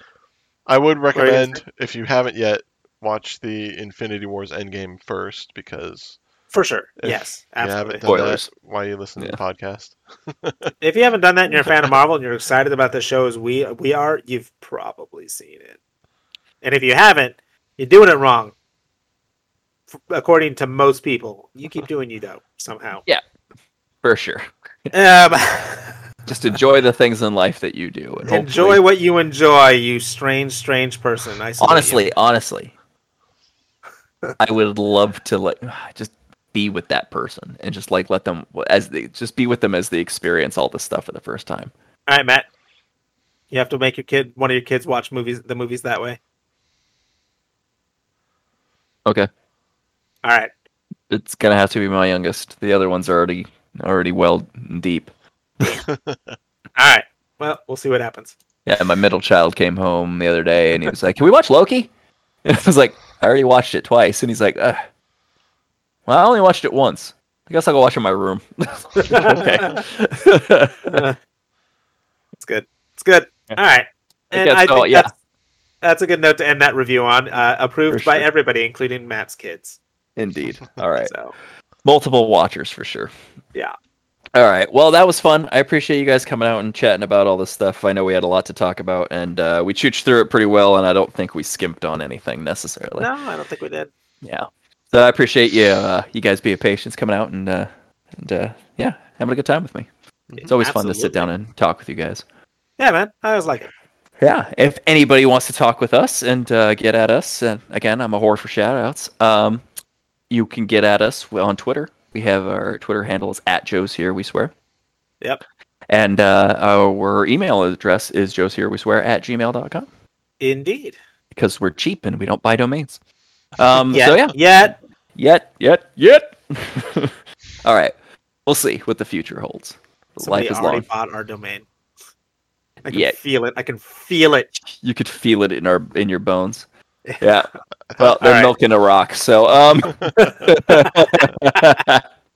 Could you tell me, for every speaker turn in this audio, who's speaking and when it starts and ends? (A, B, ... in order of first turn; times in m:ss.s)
0:00.7-0:06.2 A
0:01.1-0:01.6 B
0:06.5-0:08.0 B
0:07.0-0:10.7 A
0:08.0-0:08.5 C
0:10.8-0:15.8 B
0:11.5-0:11.9 A
0:16.6-0:18.5 B
0:20.1-0:23.0 B
0:24.0-0:24.9 C
0:24.9-0:26.0 B
0:26.3-0:28.8 C
0:28.2-0:32.1 B
0:31.6-0:32.7 C
0:34.4-0:41.7 C
0:42.1-0:42.4 B
0:43.5-0:46.2 B
0:50.2-0:50.5 B
0:51.1-0:55.1 C
0:56.0-0:56.3 A
0:56.8-0:58.3 B
0:58.6-1:01.9 C
1:02.4-1:04.8 C
1:06.1-1:11.0 C
1:09.0-1:09.8 B
1:10.9-1:11.2 B
1:12.4-1:15.1 B
1:14.3-1:15.1 C
1:15.8-1:19.8 B
1:17.9-1:18.2 C
1:20.2-1:21.1 C
1:21.0-1:21.3 B
1:21.8-1:23.1 C
1:24.4-1:33.1 C
1:33.0-1:33.9 B
1:34.2-1:39.9 C
1:40.4-1:41.3 B
1:40.4-1:42.2 C
1:42.8-1:43.7 B
1:44.2-1:49.6 C
1:50.3-1:54.5 C
1:55.9-1:59.9 C
2:00.4-2:01.0 B
2:01.3-2:03.0 C
2:03.6-2:04.4 C
2:03.9-2:04.8 B
2:05.2-2:07.9 C
2:08.4-2:10.8 C
2:10.2-2:11.6 B
2:12.8-2:14.6 B
2:12.9-2:13.1 C
2:14.7-2:16.6 C
2:17.0-2:17.3 B
2:17.2-2:22.0 C
2:18.2-2:18.5 B
2:20.1-2:21.7 B